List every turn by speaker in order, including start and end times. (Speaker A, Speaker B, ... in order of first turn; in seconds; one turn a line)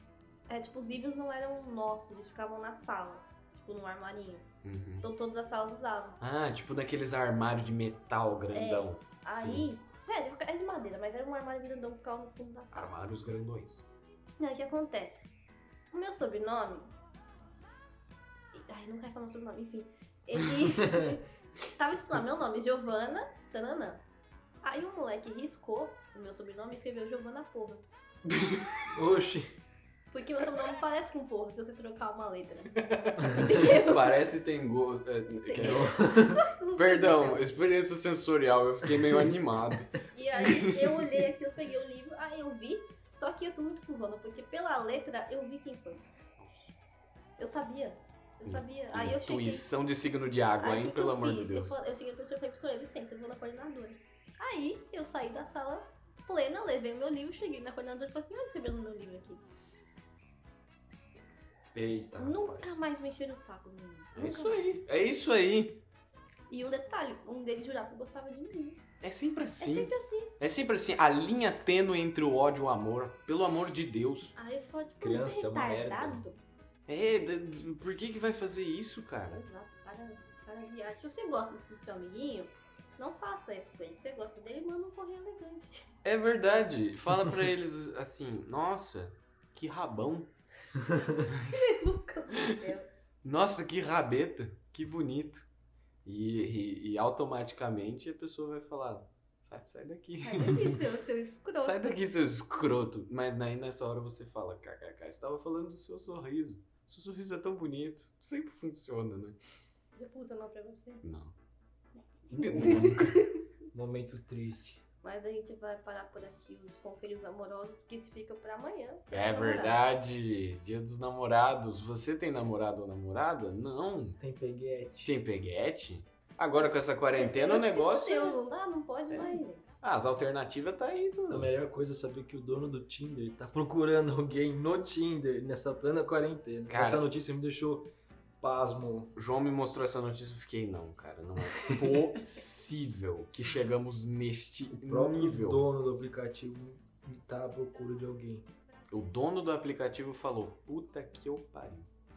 Speaker A: 0.5-4.5
Speaker B: 4.6-5.1
Speaker A: 5.0-6.2
Speaker B: 6.2-9.7
Speaker A: 8.5-12.9
Speaker B: 12.7-13.9
Speaker A: 14.4-15.3
Speaker A: 15.9-16.9
Speaker A: 18.5-24.0
Speaker A: 24.6-27.8
Speaker B: 28.2-28.8
Speaker C: 28.9-29.6
Speaker A: 30.1-34.2
Speaker B: 32.9-35.9
Speaker A: 35.5-37.5
Speaker C: 35.6-36.4
Speaker B: 36.7-41.2
Speaker A: 40.1-46.1
Speaker B: 46.4-46.7
Speaker A: 47.4-49.7
Speaker B: 48.4-51.8
Speaker A: 50.6-59.5
Speaker C: 61.7-62.8
Speaker A: 62.2-64.8
Speaker B: 64.1-65.8
Speaker A: 66.5-68.8
Speaker B: 69.0-74.3
Speaker A: 69.6-70.3
Speaker A: 74.3-76.4
Speaker C: 75.0-76.2
Speaker B: 76.9-79.4
Speaker A: 79.3-85.8
Speaker B: 86.0-90.3
Speaker A: 91.4-92.9
Speaker B: 93.2-95.5
Speaker B: 96.0-100.8
Speaker A: 100.2-102.0
Speaker B: 101.5-109.4
Speaker A: 109.9-111.0
Speaker B: 111.0-111.3
Speaker A: 112.3-113.4
Speaker B: 112.3-113.2
Speaker C: 113.7-114.8
Speaker A: 115.0-119.8
Speaker B: 119.1-124.2
Speaker C: 124.2-125.2
Speaker B: 125.0-128.5
Speaker A: 127.1-129.8
Speaker B: 129.1-131.5
Speaker C: 131.3-139.2
Speaker B: 136.7-137.1
Speaker B: 139.2-145.6
Speaker C: 144.8-148.5
Speaker B: 148.9-151.9